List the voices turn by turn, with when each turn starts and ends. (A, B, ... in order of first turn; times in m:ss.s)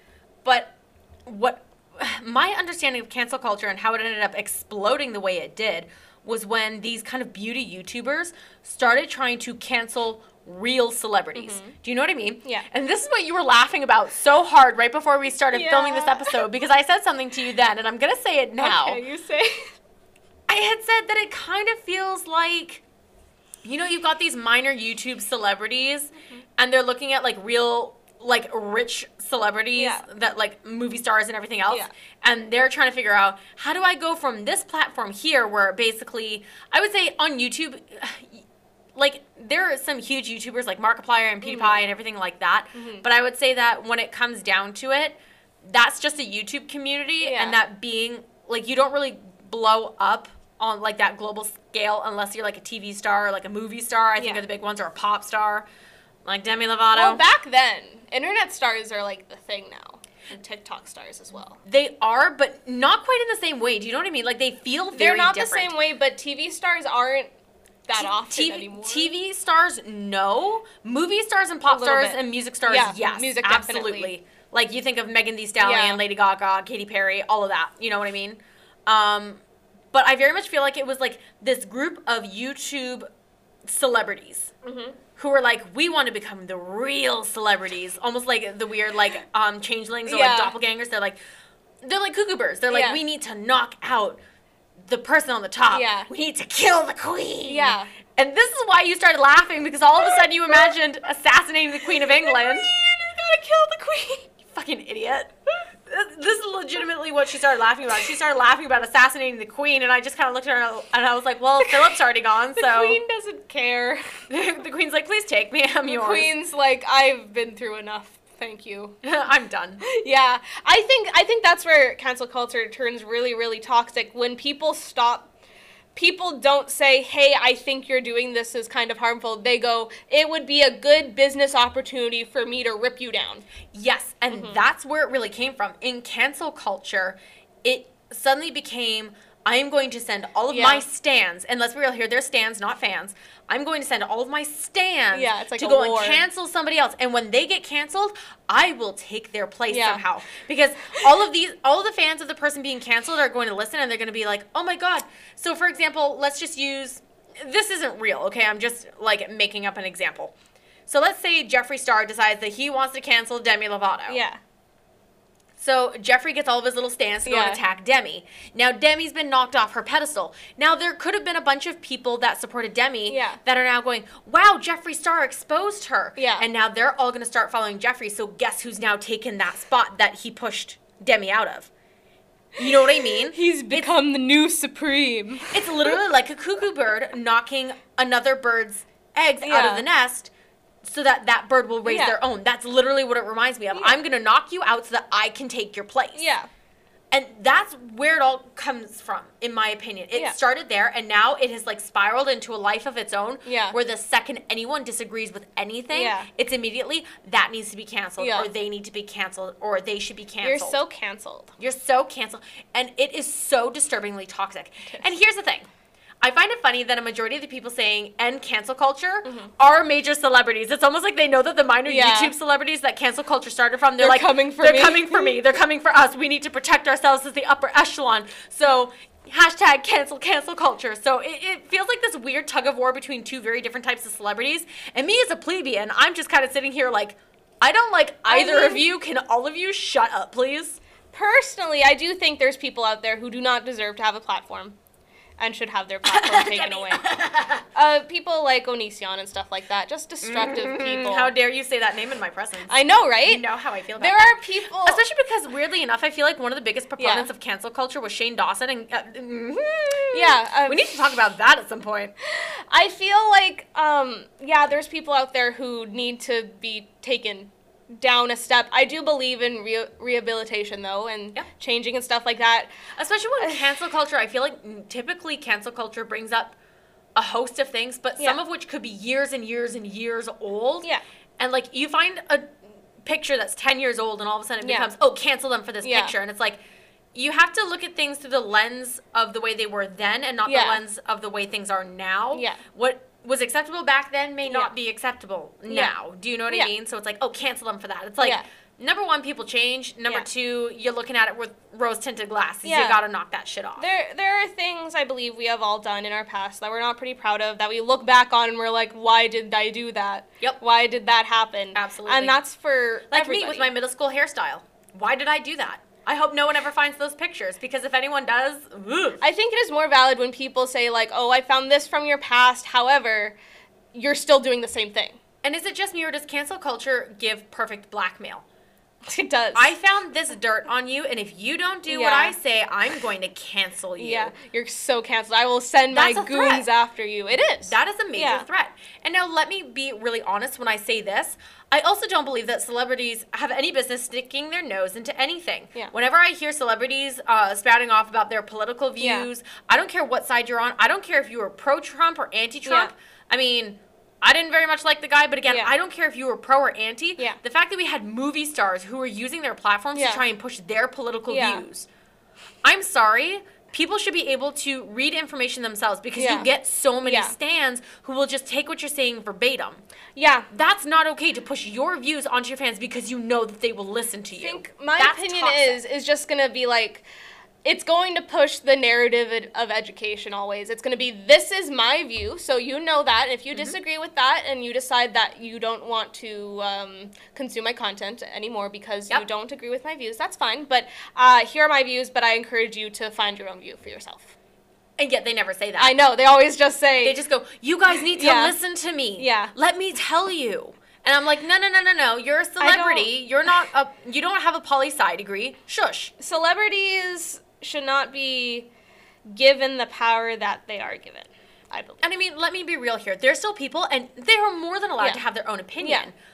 0:00.4-0:00.7 A
0:01.2-0:19.0 A
0:11.3-0:11.7 B
0:15.5-0:16.4 B
0:18.6-0:19.7 B
0:20.5-0:22.8 A
0:23.6-0:38.4 A
0:29.7-0:30.0 B
0:38.9-0:55.7 A
0:41.4-0:41.8 B
0:42.7-0:43.0 B
0:47.2-0:47.6 B
0:54.2-0:54.4 B
0:56.2-0:57.2 A
0:56.9-1:01.6 B
1:01.6-1:05.7 A
1:04.9-1:07.3 B
1:07.9-1:09.1 B
1:08.0-1:19.4 A
1:11.7-1:14.1 B
1:15.6-1:16.0 B
1:19.9-1:23.0 A
1:23.6-1:24.5 A
1:24.6-1:25.0 B
1:25.2-1:31.2 A
1:30.0-1:30.5 B
1:31.8-1:34.2 A
1:32.7-1:33.0 B
1:34.8-1:42.7 A
1:35.7-1:36.1 B
1:37.4-1:37.9 B
1:42.0-1:44.3 B
1:44.4-1:45.3 A
1:45.9-1:53.0 A
1:51.6-1:51.9 B
1:52.6-1:54.2 B
1:54.3-1:56.3 A
1:55.8-1:59.0 B
1:59.0-1:59.8 A
1:59.8-2:05.3 B
2:05.9-2:13.4 B
2:13.7-2:40.3 A
2:14.3-2:14.6 B
2:20.5-2:20.8 B
2:25.1-2:26.2 B
2:29.7-2:30.0 B
2:40.9-2:44.2 A
2:44.1-2:44.4 B
2:45.6-3:01.7 A
2:47.2-2:47.6 B
2:53.1-2:53.4 B
2:56.2-2:56.4 B
3:02.6-3:03.9 A
3:02.6-3:05.9 B
3:05.5-3:10.3 A
3:09.4-3:09.8 B
3:10.8-3:16.2 A
3:11.8-3:12.2 B
3:16.2-3:16.5 B
3:17.1-3:30.8 A
3:23.4-3:23.8 B
3:25.9-3:26.3 B
3:28.2-3:28.5 B
3:30.4-3:31.5 B
3:31.6-3:35.7 A
3:36.2-4:00.8 A
3:39.2-3:39.5 B
3:41.9-3:42.3 B
3:44.0-3:45.3 B
3:58.3-3:58.8 B
4:01.1-4:04.8 B
4:05.4-4:07.0 B
4:06.0-4:07.6 A
4:07.7-4:11.3 B
4:10.2-4:22.1 A
4:12.7-4:13.4 B
4:14.0-4:15.0 B
4:17.0-4:17.3 B
4:20.1-4:21.0 B
4:22.2-4:32.7 B
4:32.9-4:36.6 A
4:37.2-4:46.6 A
4:44.6-4:44.9 B
4:45.8-4:46.1 B
4:47.1-5:03.8 A
4:50.4-4:50.8 B
4:52.3-4:52.6 B
4:54.4-4:54.7 B
5:02.6-5:03.0 B
5:03.8-5:13.7 B
5:11.7-5:12.4 A
5:13.1-5:19.2 A
5:19.2-5:23.4 B
5:23.9-5:25.2 B
5:25.4-5:28.4 A
5:29.0-5:29.7 B
5:29.5-5:34.3 A
5:31.9-5:32.4 B
5:34.0-5:38.4 B
5:35.9-5:36.6 A
5:37.6-6:01.9 A
5:49.0-5:49.3 B
5:52.6-5:52.9 B
5:55.4-5:55.7 B
5:59.9-6:00.2 B
6:01.3-6:01.6 B
6:02.6-6:09.8 A
6:06.2-6:06.5 B
6:07.0-6:07.3 B
6:10.2-6:10.5 B
6:10.5-6:15.8 A
6:14.4-6:17.0 B
6:17.6-6:34.3 B
6:35.0-6:35.9 A
6:35.8-6:37.2 B
6:37.0-6:46.1 A
6:38.1-6:38.6 B
6:39.2-6:39.5 B
6:42.6-6:43.1 B
6:46.2-6:48.7 B
6:49.3-6:52.0 B
6:52.0-6:56.1 A
6:55.8-6:56.1 B